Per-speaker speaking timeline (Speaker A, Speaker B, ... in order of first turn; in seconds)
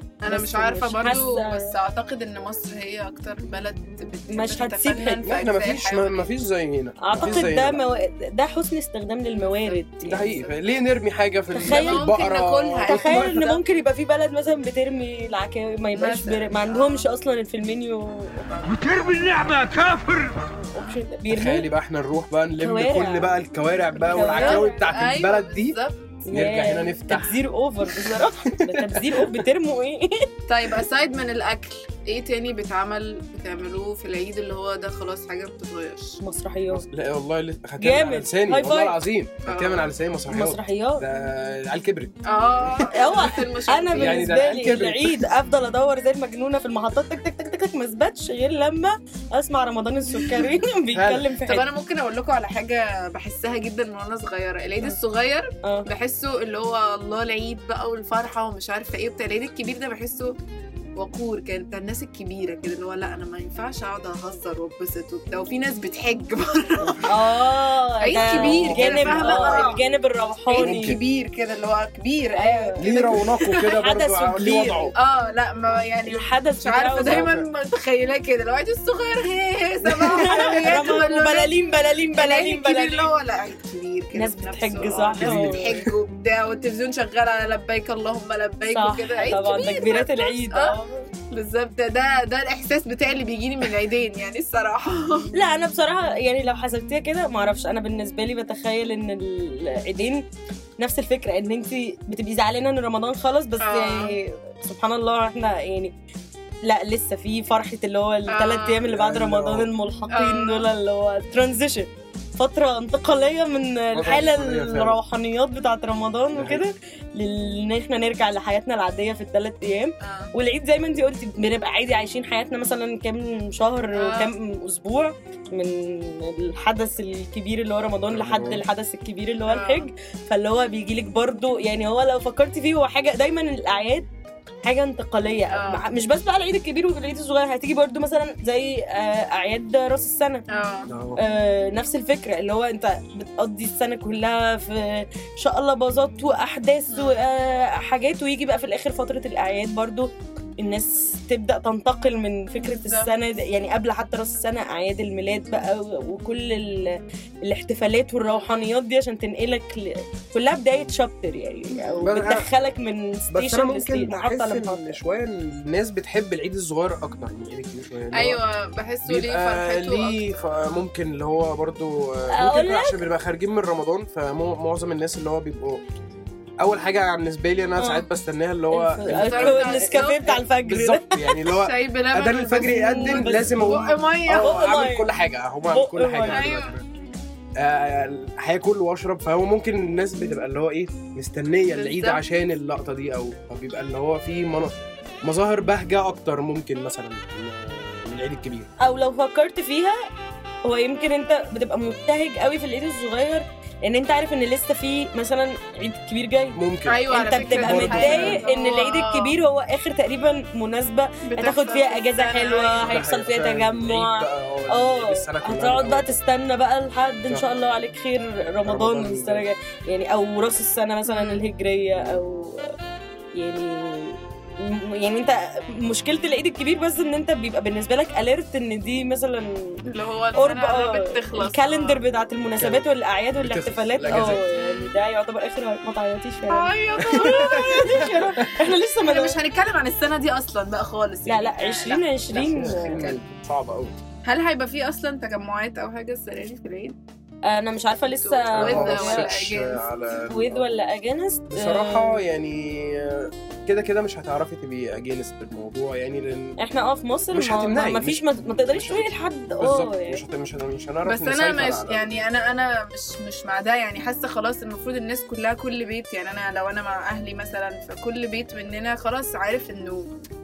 Speaker A: 0.2-6.3, 11.7-13.6, 15.9-17.1, 24.3-26.0, 30.5-36.2, 39.5-39.9, 42.3-44.3, 51.5-60.3, 61.0-67.4, 68.0-69.8, 70.5-73.5, 75.0-81.6, 82.1-90.8, 91.3-95.3, 103.6-104.2, 108.3-108.8, 110.1-110.7, 120.0-120.3, 123.9-124.3, 129.5-129.9, 135.5-135.8, 140.5-140.9, 146.9-147.2, 152.6-153.1, 161.7-162.1, 168.1-170.4, 179.1-180.4, 181.5-184.6, 186.3-186.8, 191.7-192.2, 206.9-209.3, 211.3-213.0, 221.1-221.4, 229.9-232.0, 234.2-234.9, 236.5-238.5, 239.0-243.1, 244.2-247.0, 248.2-249.8, 261.1-270.1
Speaker B: 0.3-1.7, 4.3-5.2, 7.0-10.3, 11.5-12.1, 12.9-18.5, 20.7-21.7, 22.6-23.3, 24.0-24.8, 26.3-30.3, 36.2-36.9, 37.8-39.0, 40.3-41.0, 42.9-51.7, 67.1-71.0, 72.4-72.9, 73.6-74.9, 76.1-77.3, 80.2-83.1, 84.2-85.8, 88.7-91.1, 95.3-100.3, 100.8-105.9, 106.7-134.1, 134.6-140.4, 141.2-165.0, 172.3-173.0, 177.8-178.1, 178.7-181.3, 182.8-183.7, 184.3-185.1, 185.7-186.4, 198.8-200.0, 200.7-206.6, 207.1-222.7, 223.4-229.8, 230.4-239.4, 241.3-243.1, 247.5-249.3, 250.3-252.2, 256.6-260.2
Speaker C: 5.3-7.8, 10.1-13.4, 18.8-20.3, 21.3-25.8, 26.3-27.4, 27.9-29.4, 36.7-43.4, 43.9-45.2, 50.9-51.2, 68.2-69.8, 70.6-71.0, 72.8-74.9, 77.0-77.4, 79.8-80.8, 85.2-85.9, 108.9-109.7, 113.9-115.0, 116.3-116.6, 128.1-128.6, 140.9-141.2, 162.0-162.5, 163.3-168.4, 169.1-175.8, 176.6-180.0, 180.7-186.8, 187.6-198.7, 206.6-208.4, 212.8-216.1, 218.7-219.5, 232.6-232.9, 233.4-234.4, 237.1-238.5, 242.3-243.9, 248.6-250.7, 251.5-256.6, 257.3-262.0